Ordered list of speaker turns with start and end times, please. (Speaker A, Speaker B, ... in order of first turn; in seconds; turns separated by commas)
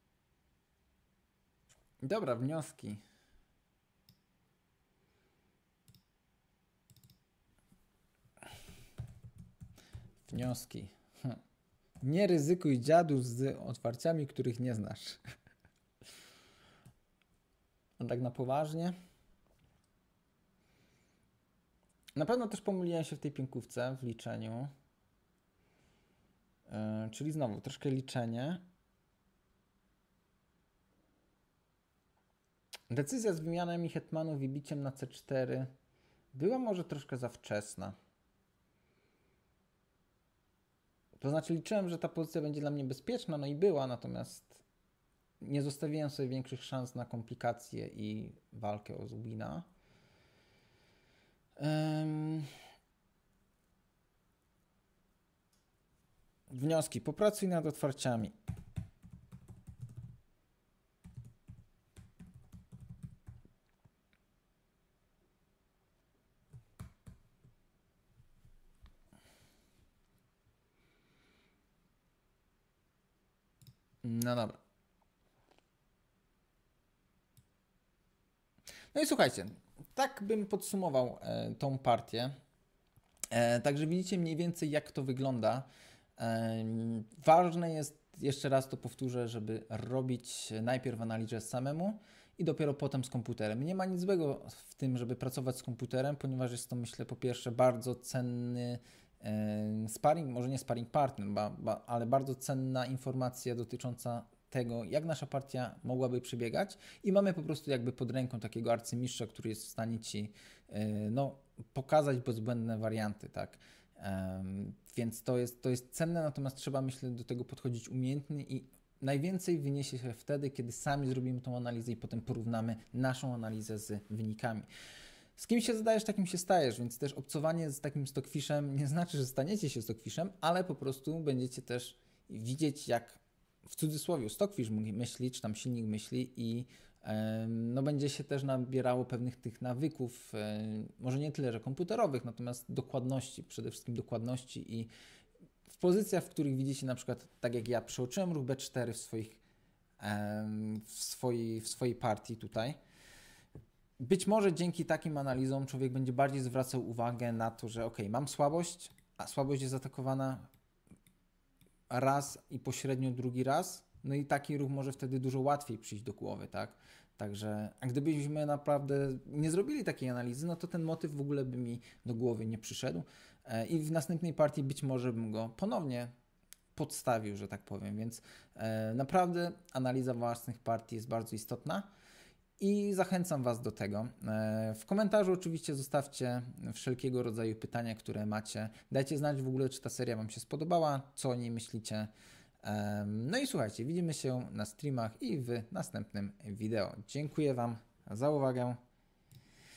Speaker A: 2.0-3.0, Speaker A: 10.2-11.4, Speaker A: 12.0-15.2, Speaker A: 18.0-18.9, Speaker A: 22.1-24.7, Speaker A: 26.7-28.6, Speaker A: 32.9-35.7, Speaker A: 36.3-38.0, Speaker A: 41.2-44.6, Speaker A: 45.4-49.7, Speaker A: 51.6-52.5, Speaker A: 56.5-58.3, Speaker A: 74.0-74.6, Speaker A: 78.9-82.3, Speaker A: 83.3-124.7, Speaker A: 125.3-144.9, Speaker A: 145.7-149.4, Speaker A: 150.0-152.8, Speaker A: 154.0-160.5, Speaker A: 161.9-176.1, Speaker A: 176.8-181.9, Speaker A: 182.6-192.1, Speaker A: 192.6-198.8